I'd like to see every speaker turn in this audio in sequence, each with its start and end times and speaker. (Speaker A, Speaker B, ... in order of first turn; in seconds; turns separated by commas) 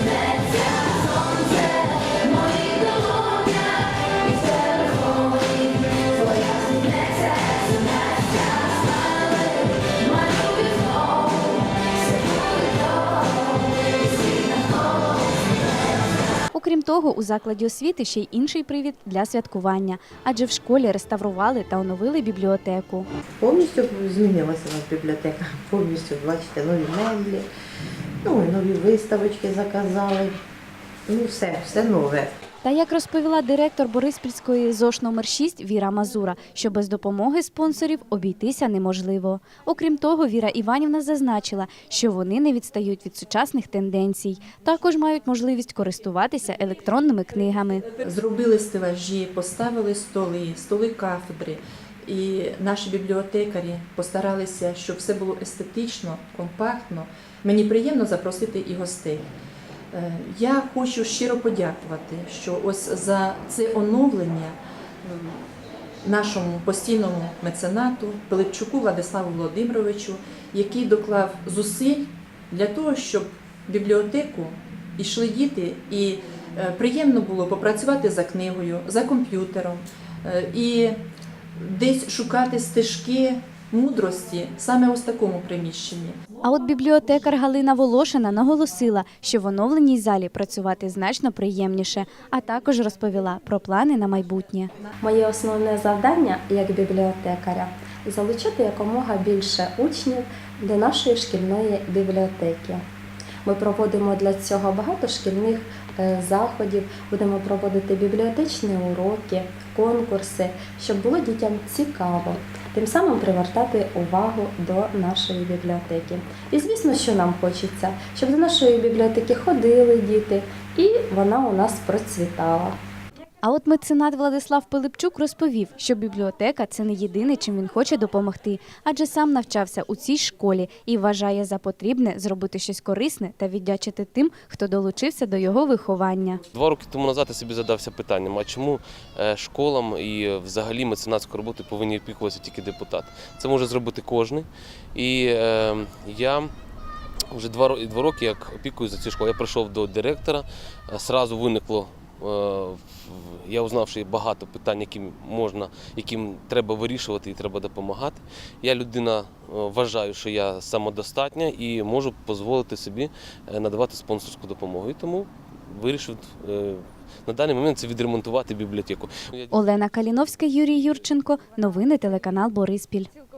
Speaker A: 16.5-23.1, Speaker B: 23.4-27.5, Speaker B: 28.2-30.4, Speaker B: 31.1-32.3, Speaker A: 32.6-47.8, Speaker C: 48.0-59.3, Speaker C: 59.9-65.4, Speaker C: 66.0-81.0, Speaker C: 81.6-86.2, Speaker A: 86.4-94.7, Speaker D: 95.0-102.8, Speaker D: 103.4-122.8, Speaker A: 123.4-136.4, Speaker E: 136.5-146.5, Speaker E: 147.3-169.6, Speaker A: 169.5-173.1